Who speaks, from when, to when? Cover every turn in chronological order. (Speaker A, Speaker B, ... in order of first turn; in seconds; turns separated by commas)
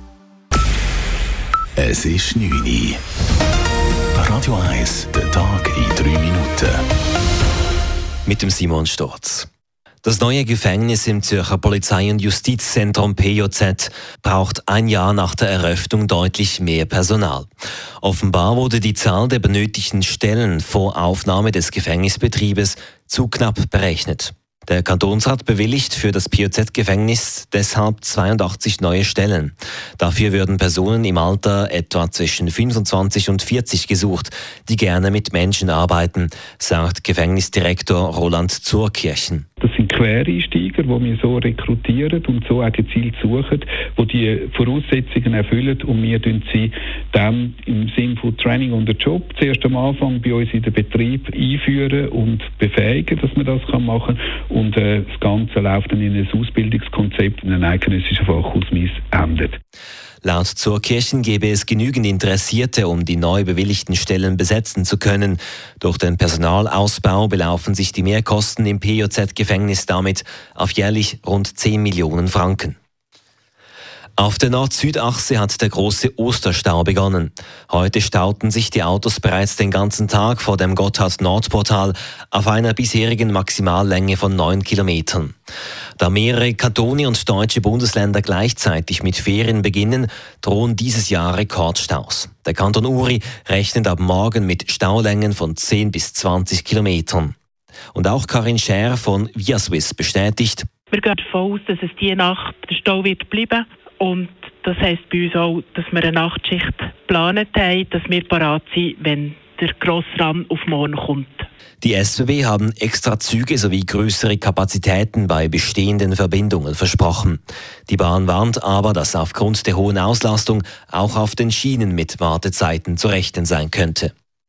Speaker A: 1.8-3.0, Speaker A: 4.1-6.8, Speaker B: 8.2-9.5, Speaker B: 10.0-17.5, Speaker B: 18.0-39.4, Speaker C: 39.6-59.6, Speaker B: 60.2-72.8, Speaker B: 74.2-85.3, Speaker B: 86.0-97.3, Speaker B: 97.9-100.7, Speaker D: 100.9-111.5, Speaker B: 111.8-124.1